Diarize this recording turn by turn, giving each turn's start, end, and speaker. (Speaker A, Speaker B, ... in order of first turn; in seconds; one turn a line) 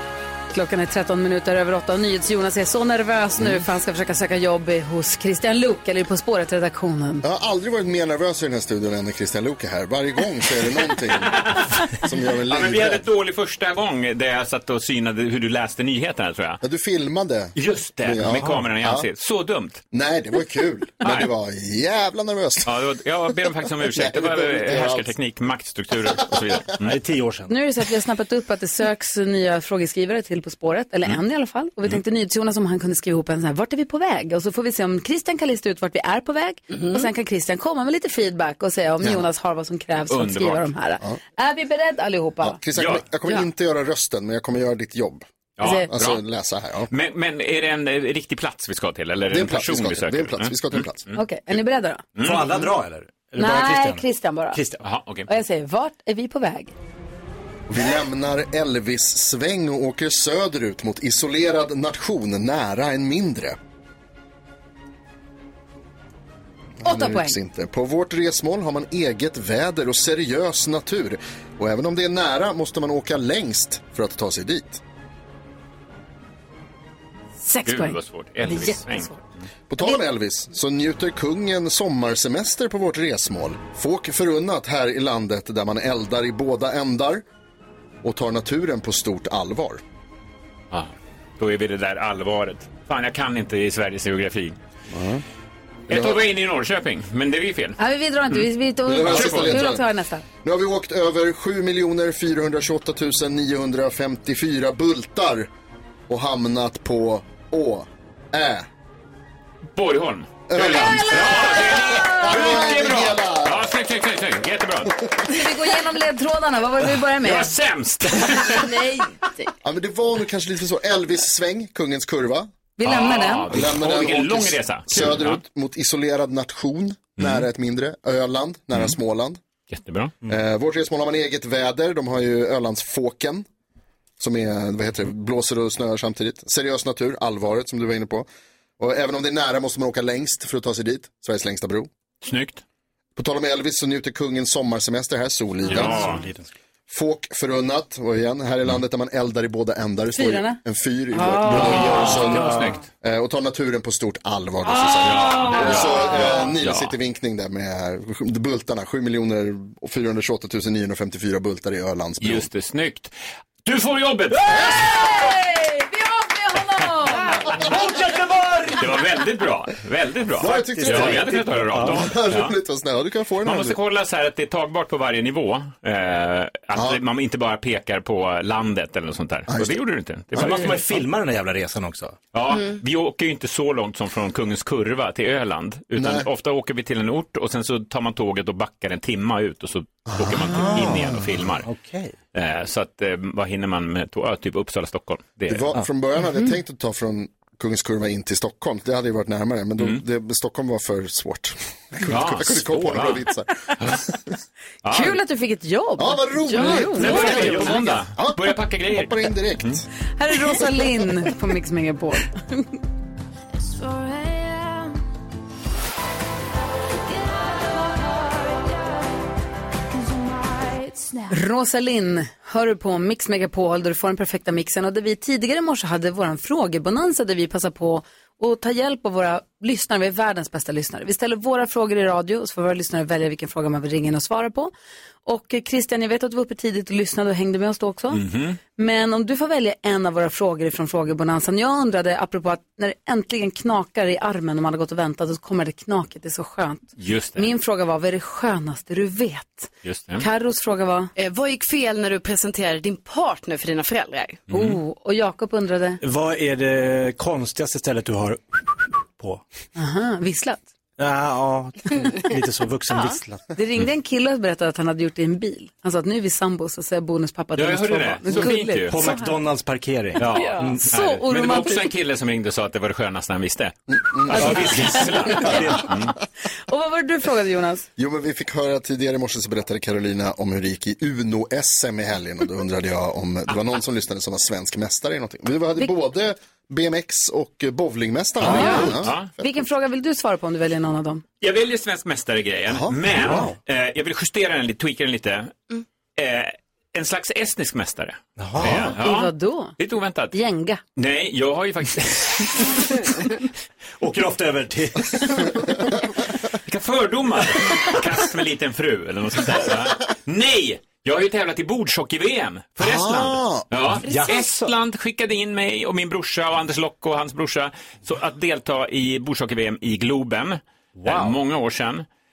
Speaker A: 0.5-7.2
Speaker B: 7.2-11.4
Speaker C: 11.1-11.9
Speaker B: 12.0-13.0
Speaker C: 12.4-16.6
Speaker B: 16.6-19.0
Speaker C: 17.5-19.8
Speaker B: 19.9-22.7
Speaker C: 21.0-21.3
Speaker C: 22.6-26.9
Speaker B: 23.8-25.1
Speaker D: 26.8-27.5
Speaker A: 27.5-42.6
Speaker E: 36.7-37.0
Speaker C: 40.1-40.7
Speaker B: 42.4-46.9
Speaker C: 42.8-43.0
Speaker C: 45.6-46.2
Speaker A: 45.6-45.9
Speaker C: 46.9-51.2
Speaker B: 49.3-51.0
Speaker A: 51.1-52.6
Speaker C: 52.1-52.5
Speaker D: 52.2-54.8
Speaker A: 53.4-54.6
Speaker C: 54.8-55.3
Speaker A: 55.3-56.7
Speaker B: 57.7-63.6
Speaker B: 66.8-74.8
Speaker A: 66.8-67.4
Speaker A: 77.4-79.2
Speaker C: 77.6-79.2
Speaker B: 79.7-87.2
Speaker B: 88.0-89.8
Speaker C: 90.7-94.6
Speaker B: 94.9-95.2
Speaker C: 95.9-97.8
Speaker B: 95.9-96.2
Speaker A: 97.8-100.2
Speaker B: 98.8-99.8
Speaker C: 99.0-99.7
Speaker B: 100.4-105.5
Speaker B: 106.1-108.7
Speaker C: 109.7-114.9
Speaker B: 110.5-113.7
Speaker A: 110.6-112.6
Speaker A: 115.2-117.5
Speaker C: 117.2-118.8
Speaker A: 118.5-118.9
Speaker E: 118.7-119.4
Speaker B: 119.6-122.5
Speaker A: 122.8-123.5
Speaker C: 122.8-125.4
Speaker B: 123.5-129.4
Speaker C: 127.2-127.5
Speaker C: 129.7-130.1
Speaker B: 130.2-133.4
Speaker B: 134.2-138.3
Speaker B: 138.8-141.9
Speaker C: 142.2-142.6
Speaker B: 143.2-146.1
Speaker C: 145.6-146.2
Speaker D: 145.6-146.5
Speaker B: 146.9-162.5
Speaker A: 150.1-150.6
Speaker A: 151.1-152.1
Speaker C: 151.5-152.8
Speaker D: 151.6-152.7
Speaker C: 155.0-156.9
Speaker C: 162.2-165.0
Speaker A: 164.5-167.5
Speaker D: 167.4-169.0
Speaker C: 168.8-172.6
Speaker B: 170.4-173.8
Speaker D: 170.5-172.2
Speaker C: 173.4-181.0
Speaker B: 176.7-177.0
Speaker B: 179.5-180.7
Speaker D: 180.3-182.2
Speaker C: 182.3-191.7
Speaker E: 182.5-182.8
Speaker B: 185.9-186.2
Speaker B: 190.1-191.2
Speaker D: 190.4-192.1
Speaker C: 192.3-195.7
Speaker B: 195.5-203.5
Speaker C: 202.0-203.3
Speaker C: 203.8-204.1
Speaker C: 204.8-205.2
Speaker A: 204.8-207.9
Speaker B: 206.0-209.8
Speaker E: 206.6-206.9
Speaker C: 206.8-209.8
Speaker A: 210.2-212.6
Speaker F: 213.6-215.0
Speaker F: 217.0-219.2
Speaker F: 219.9-221.4
Speaker A: 221.3-234.7
Speaker A: 235.2-238.2
Speaker C: 238.1-238.6
Speaker A: 238.8-251.1
Speaker C: 247.0-247.5
Speaker C: 249.8-250.2
Speaker E: 251.2-254.4
Speaker C: 254.5-254.8
Speaker A: 254.5-256.0
Speaker D: 256.0-259.4
Speaker A: 259.8-260.6
Speaker D: 261.0-263.5
Speaker A: 263.0-269.3
Speaker C: 267.6-269.2
Speaker D: 268.3-270.9
Speaker C: 270.2-276.1
Speaker E: 270.3-270.8
Speaker A: 270.7-271.9
Speaker B: 273.9-274.6
Speaker D: 274.3-275.9
Speaker A: 274.8-275.1
Speaker A: 276.7-277.9
Speaker B: 278.0-289.4
Speaker C: 288.4-289.3
Speaker D: 288.4-288.9
Speaker A: 288.5-291.2
Speaker C: 291.4-295.6
Speaker B: 292.7-293.5
Speaker D: 293.2-293.6
Speaker C: 296.2-300.4
Speaker D: 298.4-299.0
Speaker A: 298.9-299.8
Speaker A: 300.3-300.8
Speaker C: 300.9-303.0
Speaker D: 304.0-305.6
Speaker C: 306.6-322.1
Speaker B: 312.8-313.7
Speaker D: 314.0-314.8
Speaker D: 320.9-321.4